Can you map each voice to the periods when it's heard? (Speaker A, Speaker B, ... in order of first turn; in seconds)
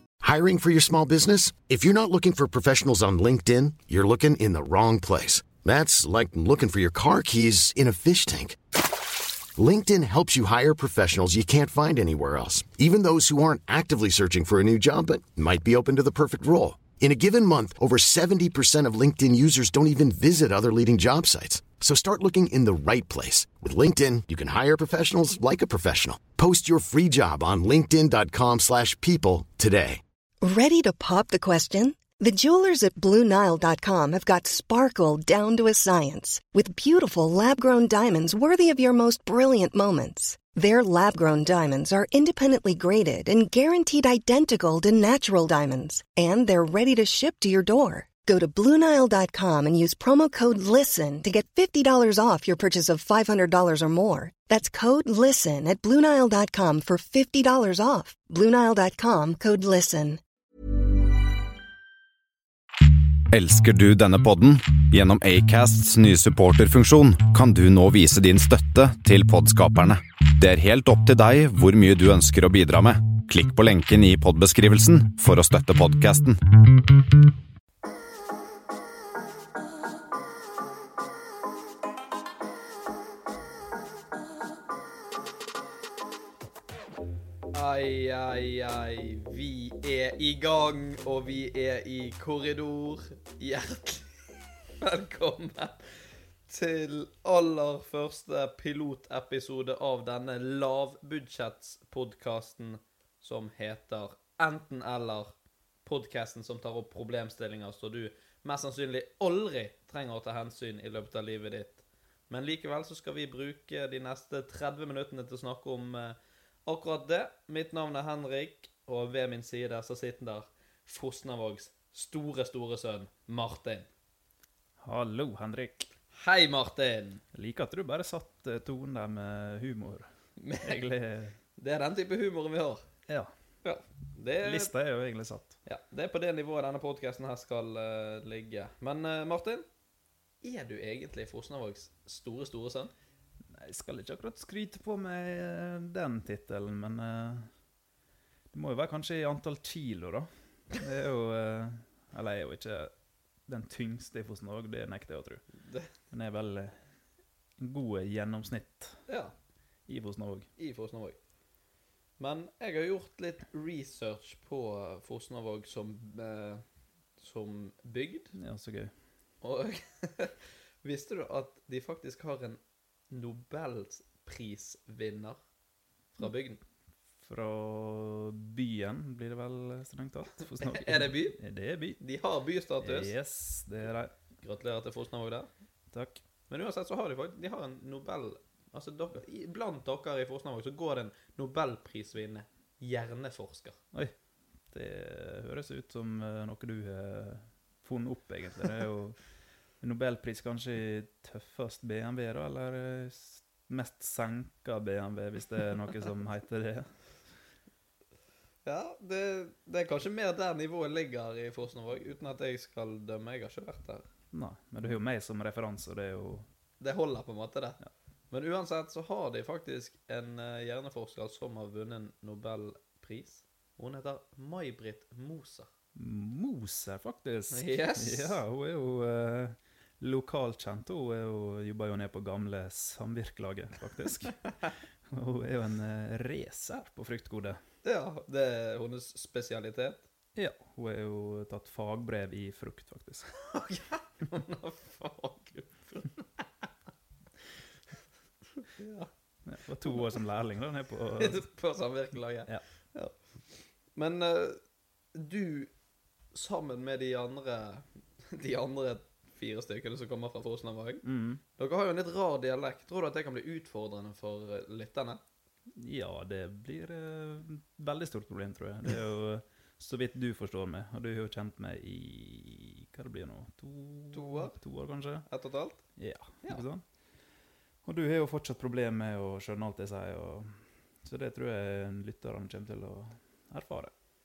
Speaker A: 0.2-8.8, 9.5-30.0
Speaker B: 30.4-60.2
Speaker C: 63.3-77.0
Speaker D: 87.5-105.3, 105.8-123.9, 126.2-127.2, 130.4-130.9, 131.6-132.8, 133.6-134.7, 135.7-139.7, 140.4-142.9, 155.6-155.9, 159.1-159.3, 160.6-161.2, 162.2-166.6, 167.2-168.3, 169.4-172.6, 173.1-175.4, 176.2-176.6, 180.6-181.4, 182.0-183.1, 184.4-185.5, 186.5-193.8, 208.7-214.1, 216.8-217.8, 218.3-225.7, 227.5-228.4, 237.8-240.1, 243.4-246.7, 248.6-249.1, 251.2-253.2, 253.9-254.6, 255.1-255.7, 256.3-261.0, 261.6-265.2, 274.1-274.6, 275.3-275.8
Speaker E: 124.8-125.9, 127.3-130.1, 130.7-131.4, 134.4-135.6, 143.5-147.5, 148.5-152.9, 153.5-155.4, 156.1-156.8, 157.6-159.0, 159.9-160.5, 168.3-168.9, 177.2-182.0, 182.8-184.1, 185.9-186.2, 194.7-199.2, 199.8-206.9, 214.3-216.5, 225.9-234.4, 235.1-237.6, 240.4-243.3, 249.4-251.4, 261.0-261.4, 265.8-275.3, 276.0-276.8, 277.9-283.9